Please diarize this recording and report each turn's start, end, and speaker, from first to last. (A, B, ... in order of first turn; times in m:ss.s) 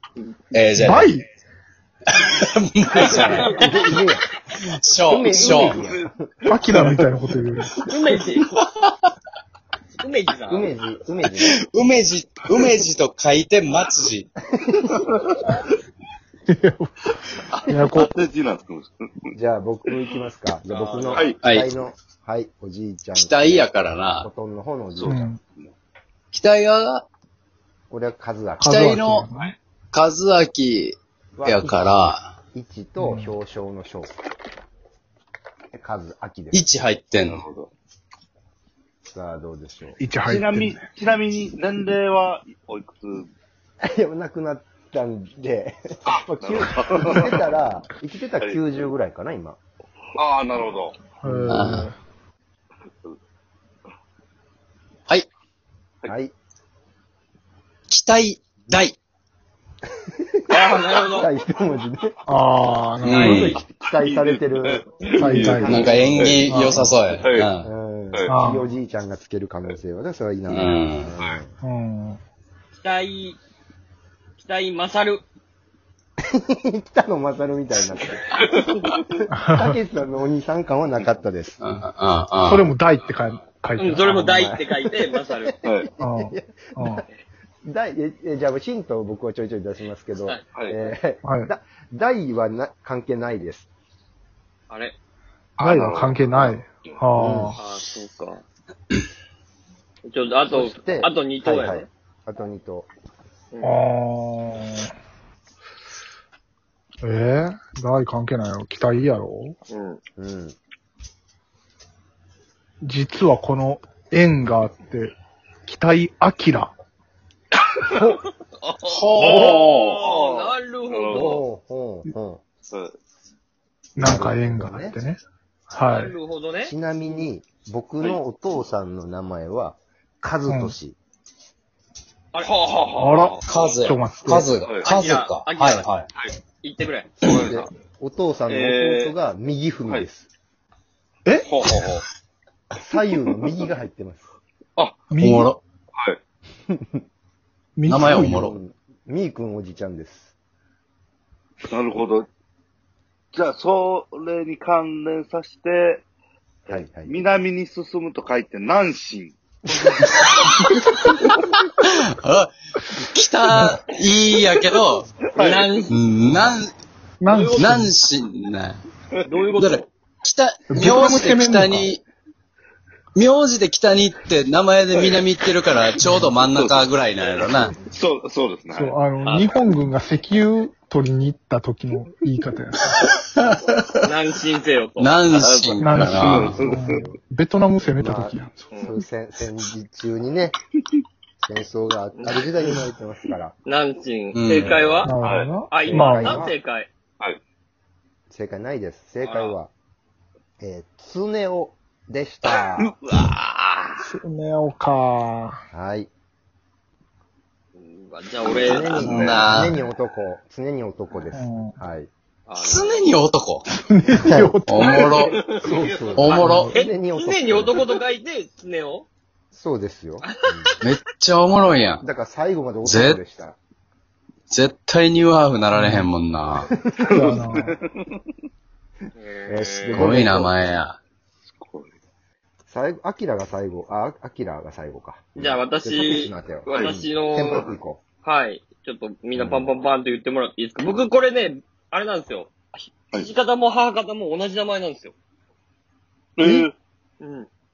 0:00.5-0:01.1 A
0:00.8-0:01.3 B
0:02.1-0:03.7 A
0:03.0-0:03.9 C
0:03.0-0:06.2 D
0:04.6-0:05.9 A
0:05.2-0:07.0 E
0:06.5-0:07.7 B
0:07.9-0:08.6 C
0:10.0-0:10.7 C
0:10.5-0:11.6 D
0:11.4-0:14.3 A
0:14.6-0:14.9 D
0:15.1-0:15.5 E
0:16.5-0:17.1 B
0:17.4-0:19.3 E
0:17.7-0:18.1 B
0:19.3-0:25.2 D
0:20.7-0:21.3 C
0:21.1-0:21.4 E
0:21.4-0:21.7 A
0:23.2-0:24.3 A
0:25.0-0:25.7 E
0:25.1-0:25.4 B
0:26.3-0:27.1 A
0:27.9-0:28.7 D
0:28.6-0:29.6 B
0:28.6-0:29.3 A
0:29.9-0:32.3 A
0:31.4-0:34.1 D
0:33.0-0:33.4 B
0:35.7-0:36.7 D
0:36.5-0:37.4 A
0:37.3-0:37.7 E
0:39.1-0:40.0 D
0:40.0-0:40.8 B
0:40.2-0:43.3 E
0:43.8-0:49.6 D
0:46.1-0:47.3 E
0:50.2-0:51.0 E
0:51.2-0:52.0 B
0:51.2-0:51.7 D
0:51.5-0:51.9 A
0:56.1-0:56.3 D
0:57.9-0:59.0 A
1:00.5-1:01.3 C
1:01.1-1:02.2 D
1:02.3-1:03.5 B
1:03.0-1:03.6 A
1:03.0-1:03.6 C
1:03.7-1:06.4 D
1:04.0-1:07.5 E
1:05.2-1:06.9 B
1:05.6-1:07.7 A
1:07.6-1:11.6 D
1:08.3-1:08.7 B
1:10.5-1:11.1 A
1:11.6-1:12.2 B
1:12.7-1:13.4 C
1:14.4-1:15.2 C
1:16.3-1:18.4 D
1:19.3-1:19.7 B
1:19.5-1:21.6 D
1:21.6-1:22.7 A
1:22.4-1:24.3 B
1:23.8-1:25.6 C
1:24.2-1:27.1 D
1:25.6-1:25.9 E
1:26.0-1:27.0 B
1:27.6-1:33.7 D
1:30.2-1:30.9 C
1:31.2-1:31.5 B
1:34.7-1:35.0 C
1:35.6-1:37.0 E
1:35.6-1:37.6 B
1:37.1-1:37.6 D
1:37.6-1:38.4 C
1:40.1-1:41.9 C
1:40.5-1:42.9 D
1:43.5-1:43.8 C
1:43.6-1:44.9 B
1:47.0-1:49.6 B
1:49.7-1:50.0 C
1:50.2-1:50.6 D
1:52.8-1:55.2 B
1:55.7-1:56.7 B
1:58.6-2:01.4 E
1:58.8-2:00.0 A
1:59.2-2:01.4 C
2:01.1-2:02.4 D
2:02.7-2:03.0 E
2:04.0-2:05.0 D
2:04.0-2:05.2 B
2:05.7-2:06.1 B
2:05.8-2:06.7 C
2:06.6-2:11.0 D
2:10.5-2:10.8 B
2:12.3-2:13.9 C
2:13.0-2:14.6 B
2:13.4-2:16.1 A
2:14.8-2:17.1 C
2:17.2-2:20.3 D
2:17.2-2:17.7 E
2:18.5-2:19.1 E
2:21.3-2:21.6 B
2:21.5-2:22.0 E
2:22.8-2:24.3 D
2:25.1-2:25.5 B
2:25.2-2:25.6 A
2:26.7-2:27.0 D
2:27.8-2:28.4 B
2:27.9-2:28.6 A
2:28.0-2:30.3 D
2:31.6-2:32.3 E
2:33.3-2:36.0 E
2:36.7-2:39.4 E
2:36.7-2:37.2 D
2:40.0-2:41.1 A
2:41.8-2:45.1 A
2:43.5-2:43.8 B
2:45.2-2:45.9 E
2:45.4-2:45.9 C
2:45.9-2:46.7 A
2:47.2-2:47.9 B
2:47.3-2:47.7 C
2:47.6-2:48.8 A
2:49.2-2:49.8 C
2:49.6-2:52.0 A
2:50.7-2:51.9 B
2:53.2-2:57.8 A
2:54.9-2:55.2 E
2:56.0-2:56.3 B
2:56.4-2:56.9 E
2:57.9-2:59.0 E
2:58.7-3:03.0 B
2:59.2-2:59.5 C
3:03.0-3:03.9 A
3:04.0-3:05.2 C
3:05.0-3:06.7 A
3:05.3-3:07.0 E
3:05.8-3:08.8 B
3:06.6-3:07.2 D
3:08.0-3:10.6 D
3:11.4-3:13.6 D
3:12.2-3:12.5 C
3:13.6-3:15.2 C
3:14.3-3:15.0 A
3:15.0-3:16.5 B
3:15.2-3:15.5 E
3:15.7-3:16.9 C
3:15.7-3:16.6 D
3:18.3-3:19.7 D
3:19.2-3:19.6 C
3:20.6-3:22.9 D
3:22.8-3:24.0 E
3:24.0-3:25.6 B
3:25.7-3:26.1 D
3:27.8-3:29.1 C
3:28.4-3:29.5 E
3:28.6-3:32.1 D
3:28.9-3:29.8 A
3:31.3-3:31.8 B
3:32.5-3:33.1 C
3:32.6-3:33.6 A
3:33.7-3:35.2 B
3:34.2-3:34.6 D
3:34.7-3:35.4 A
3:35.0-3:35.8 C
3:35.3-3:36.4 E
3:35.4-3:37.8 D
3:36.1-3:36.7 A
3:36.3-3:36.8 B
3:36.4-3:39.1 C
3:39.5-3:40.7 D
3:40.8-3:42.0 A
3:42.0-3:43.6 D
3:42.8-3:43.2 A
3:44.5-3:46.7 A
3:45.7-3:46.1 B
3:47.0-3:48.2 E
3:47.1-3:47.7 B
3:49.2-3:50.0 C
3:49.5-3:50.5 D
3:50.0-3:51.0 A
3:51.5-3:51.9 E
3:52.7-3:58.0 D
3:55.4-3:57.7 C
3:56.7-3:57.0 E
3:58.2-4:05.1 C
3:59.4-3:59.7 D
4:06.4-4:06.7 E
4:07.2-4:07.5 C